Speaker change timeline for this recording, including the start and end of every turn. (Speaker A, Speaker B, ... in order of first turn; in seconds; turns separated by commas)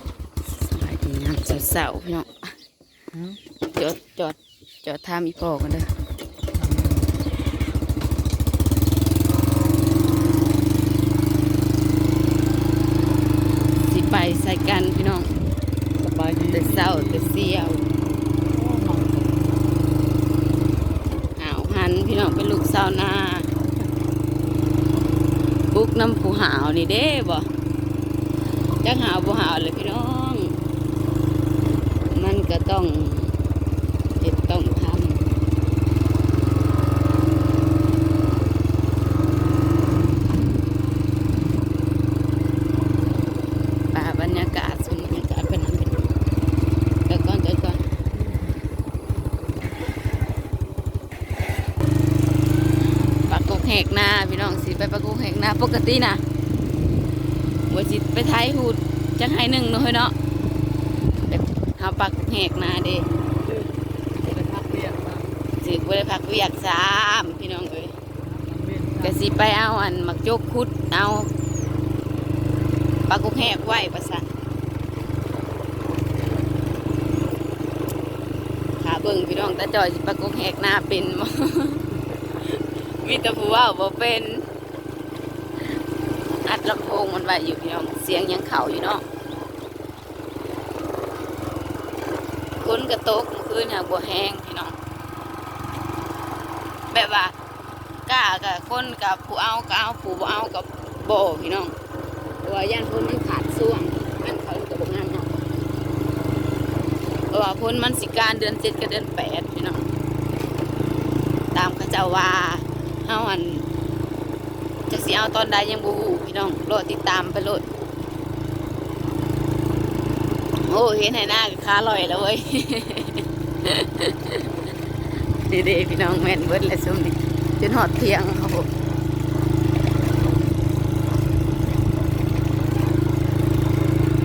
Speaker A: 0.5-2.5, Speaker B: 3.1-3.4, Speaker A: 3.7-5.9, Speaker B: 6.5-7.1, Speaker A: 13.9-15.3, Speaker B: 15.9-17.3, Speaker A: 16.5-17.9, Speaker B: 18.5-19.6, Speaker A: 21.4-23.5, Speaker B: 23.6-23.9, Speaker A: 25.7-27.5, Speaker A: 28.8-30.6, Speaker A: 32.1-33.4, Speaker A: 34.2-35.3, Speaker A: 43.9-46.0, Speaker A: 47.1-47.8, Speaker A: 53.2-56.2, Speaker A: 57.7-60.1, Speaker A: 61.3-63.1, Speaker B: 63.4-65.3, Speaker A: 65.6-67.9, Speaker B: 68.2-69.2, Speaker A: 69.0-71.3, Speaker A: 73.1-74.3, Speaker A: 78.8-81.8, Speaker A: 82.5-84.5, Speaker A: 86.5-89.0, Speaker A: 92.6-94.8, Speaker A: 96.9-97.3, Speaker A: 98.1-101.7, Speaker A: 102.4-105.3, Speaker A: 107.3-109.9, Speaker A: 111.5-113.7, Speaker A: 114.9-117.7, Speaker A: 120.7-124.5, Speaker A: 125.5-128.7